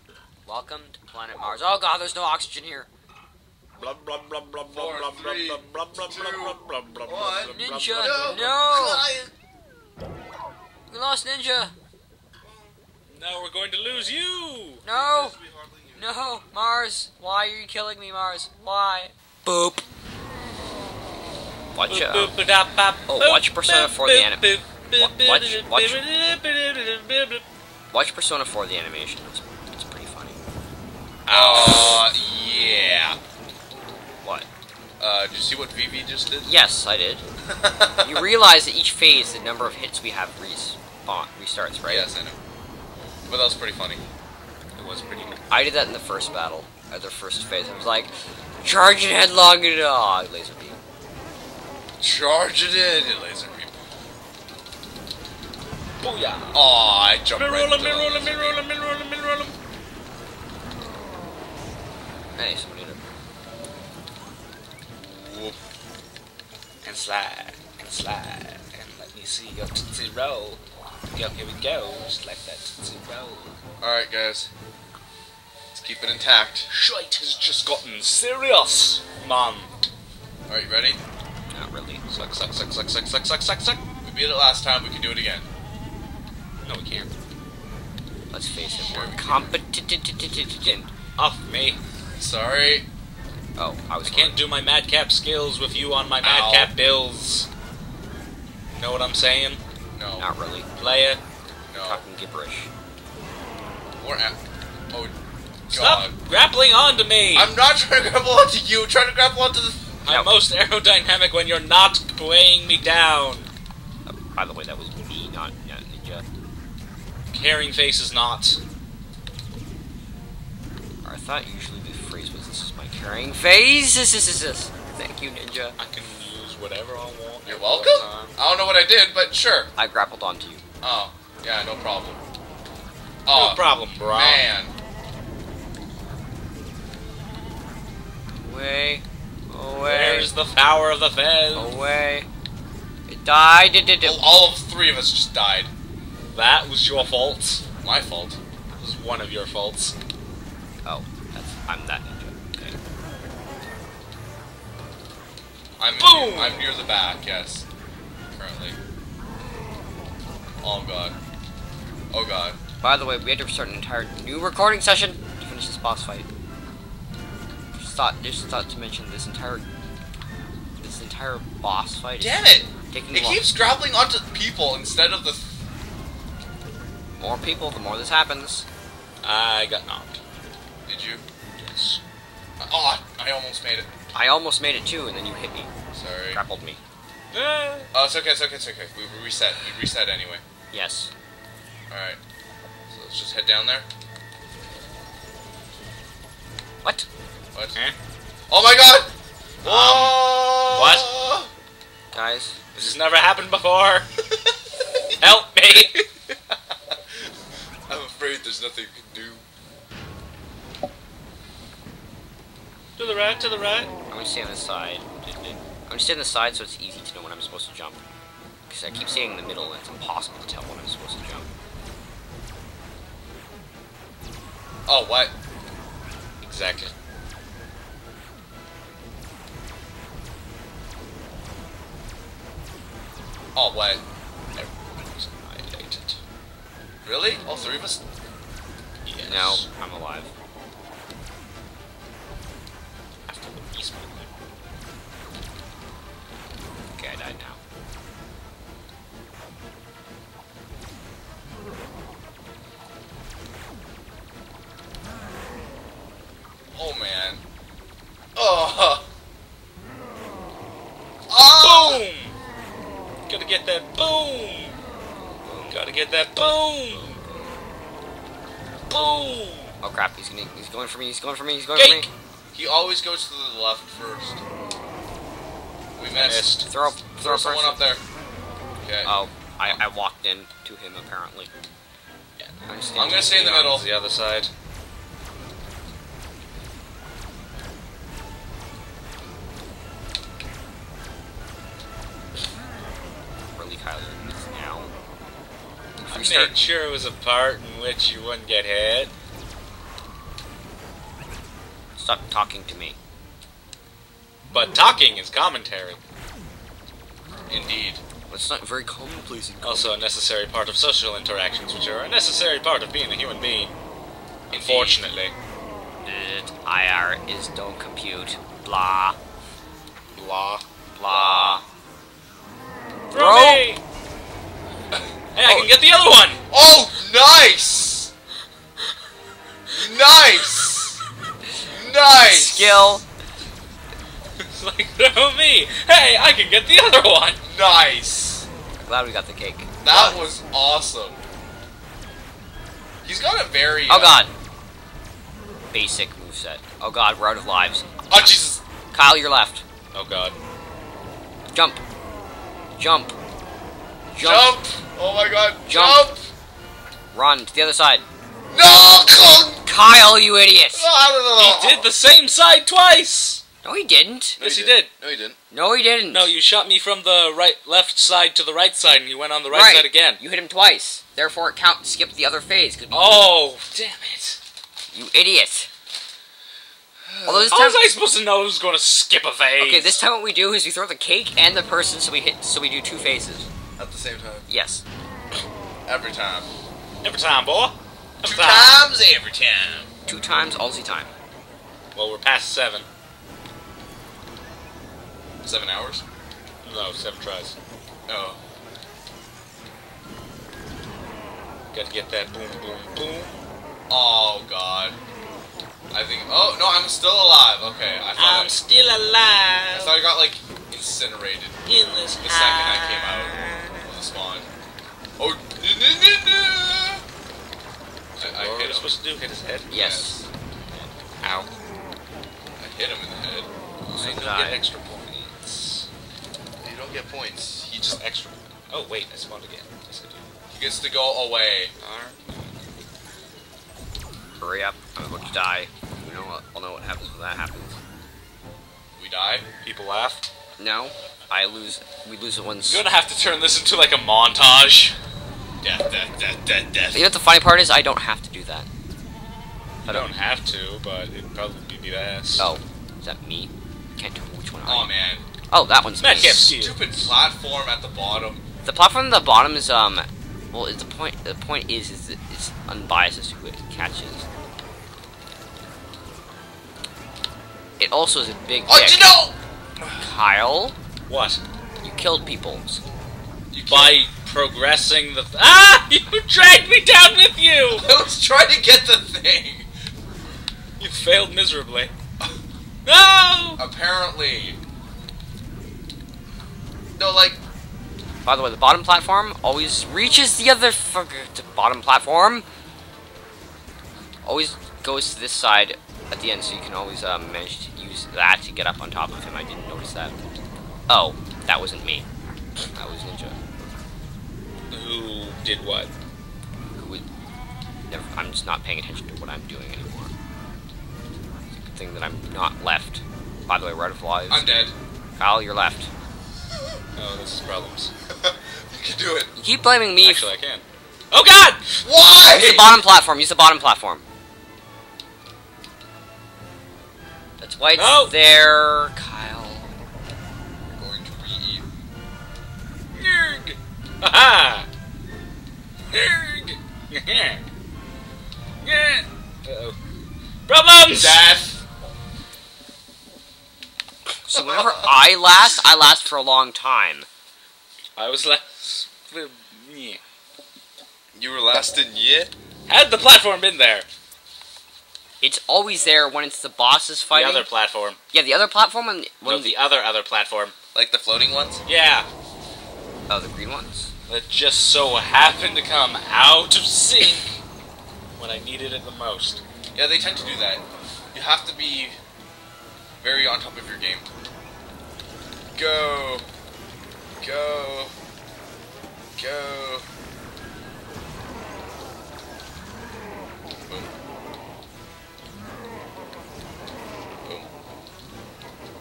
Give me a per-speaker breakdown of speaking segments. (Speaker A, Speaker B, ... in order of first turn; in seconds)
Speaker A: 0.5-2.9, 7.4-9.1, 10.9-11.7, 14.8-15.4, 15.9-19.8, 21.7-22.4, 23.1-24.5, 25.0-26.0, 27.9-30.4, 31.3-32.2, 34.2-34.5, 36.4-37.2, 38.0-42.1, 45.5-50.8, 62.4-63.0, 81.5-82.0, 88.3-90.9, 93.6-94.5, 100.2-100.7, 101.8-102.7, 110.1-110.4, 114.1-116.2, 121.0-125.8, 129.8-130.6, 138.4-140.3, 141.6-142.3, 143.1-144.3, 150.8-152.6, 162.8-166.3, 167.8-169.7, 170.8-173.5, 177.2-178.7, 184.1-185.7, 186.3-186.8, 190.7-191.1, 202.1-202.6, 214.1-218.0, 218.7-221.5, 239.2-240.3, 246.9-247.6, 265.2-265.8, 269.8-272.1, 276.6-277.9, 279.1-281.5, 282.7-283.6, 293.6-294.9, 296.0-296.6, 302.0-303.0, 308.3-310.0, 316.0-319.2, 321.0-321.6, 323.1-323.6, 325.4-325.7, 332.2-333.1, 338.8-340.2, 343.9-344.3, 345.7-347.9, 348.9-349.6, 351.5-351.8, 352.8-353.2, 354.1-354.6, 355.7-356.1, 357.1-358.1, 359.6-360.9, 363.6-364.4, 365.5-366.3, 369.5-373.3, 374.9-375.7, 377.2-377.9, 379.6-383.5, 384.5-384.8, 390.1-391.1, 419.7-420.9, 423.9-424.6, 434.4-437.8, 440.6-442.8, 446.9-448.7, 449.9-450.1, 452.4-454.9, 455.5-456.5, 458.6-464.3, 467.8-469.2, 470.0-470.8, 471.8-472.8, 488.2-492.5, 494.2-500.2, 500.9-502.1, 502.6-503.4, 506.7-507.1, 507.9-510.1, 511.6-515.9, 519.4-520.3, 522.2-524.0, 527.4-529.8, 544.2-547.1, 555.2-557.5, 558.1-559.6, 563.1-563.9
Speaker B: 3.8-8.5, 13.1-14.8, 21.9-27.4, 44.8-45.4, 56.0-56.6, 57.3-59.6, 66.8-70.6, 71.1-73.6, 76.7-79.7, 82.1-83.8, 86.6-87.1, 91.2-91.8, 94.0-97.5, 98.7-99.6, 100.8-101.2, 105.7-107.5, 110.0-113.5, 117.3-118.6, 125.8-128.3, 133.3-134.4, 139.8-141.7, 146.3-147.6, 148.7-149.9, 156.0-156.7, 179.2-180.2, 181.5-182.0, 187.3-187.9, 199.6-201.1, 202.8-204.1, 205.2-206.1, 213.0-213.9, 226.4-226.9, 234.6-236.2, 239.1-239.7, 243.3-244.3, 261.6-262.4, 263.3-264.8, 265.7-267.2, 268.9-269.7, 271.8-272.1, 276.1-276.7, 283.3-284.5, 296.1-299.1, 304.5-306.0, 309.6-313.7, 314.5-315.3, 320.1-321.6, 323.1-323.8, 325.4-326.4, 334.4-337.4, 349.9-350.4, 361.4-363.4, 364.4-364.9, 366.1-370.2, 372.9-374.4, 377.5-380.0, 387.0-388.9, 391.9-392.9, 396.6-397.6, 401.7-403.4, 408.2-410.0, 411.7-413.9, 418.2-419.7, 421.2-421.5, 423.9-425.9, 427.9-430.3, 431.8-432.5, 439.6-440.3, 442.7-445.0, 446.3-447.1, 449.9-452.5, 456.0-457.1, 471.1-471.4, 473.7-477.9, 480.8-481.9, 482.9-483.6, 504.7-505.9, 517.0-517.9, 520.0-521.6, 527.8-528.1, 532.9-534.7, 535.9-537.4, 538.6-539.8, 540.5-541.3, 548.0-550.0, 552.7-553.9, 557.1-558.0, 559.2-560.5, 561.7-562.1, 564.1-567.4, 568.2-569.4
Speaker C: 4.7-9.3, 14.9-16.1, 31.3-33.2, 35.0-36.5, 37.5-38.3, 41.9-42.4, 43.3-44.0, 52.0-53.8, 56.5-58.6, 65.0-65.6, 73.8-74.5, 75.7-76.7, 80.5-81.0, 84.0-85.5, 88.8-89.6, 92.2-92.9, 96.2-96.7, 99.9-100.3, 101.7-102.0, 104.0-104.4, 105.7-106.2, 107.3-110.0, 127.5-129.7, 130.8-132.2, 133.3-134.7, 144.0-145.7, 147.8-148.4, 155.8-157.7, 158.3-158.8, 160.6-161.2, 162.1-162.6, 172.2-175.6, 180.9-181.2, 182.6-183.9, 185.9-186.4, 187.9-190.4, 191.9-192.2, 192.9-193.9, 197.5-197.8, 198.5-199.1, 199.6-201.5, 206.5-207.2, 207.9-209.4, 224.9-225.3, 233.6-234.0, 237.0-238.0, 256.7-257.4, 258.4-259.1, 261.3-262.1, 272.5-274.4, 276.0-278.0, 278.8-279.1, 283.0-283.9, 307.5-308.0, 314.5-315.1, 326.5-328.1, 329.7-331.0, 331.6-332.9, 337.4-338.5, 339.8-341.2, 343.0-344.2, 348.1-348.6, 354.2-356.3, 358.5-359.7, 360.7-361.9, 364.4-365.4, 377.1-377.6, 383.8-384.5, 385.9-386.5, 388.2-389.9, 395.4-396.0, 398.1-398.4, 403.9-405.0, 405.9-408.6, 409.7-411.6, 412.2-414.5, 415.2-417.1, 418.2-419.0, 419.7-420.2, 422.6-423.5, 426.6-428.0, 430.5-431.7, 439.0-439.5, 445.6-446.9, 454.6-455.2, 456.0-458.4, 468.7-470.0, 473.5-474.0, 477.7-479.7, 483.6-484.6, 487.0-487.4, 514.3-514.7, 518.1-519.3, 521.8-522.8, 530.7-531.6, 540.9-541.6, 544.3-544.9, 551.1-552.3, 560.7-561.6, 569.7-572.0, 573.0-574.1, 575.5-576.3, 577.2-577.9, 579.2-579.9, 587.2-587.5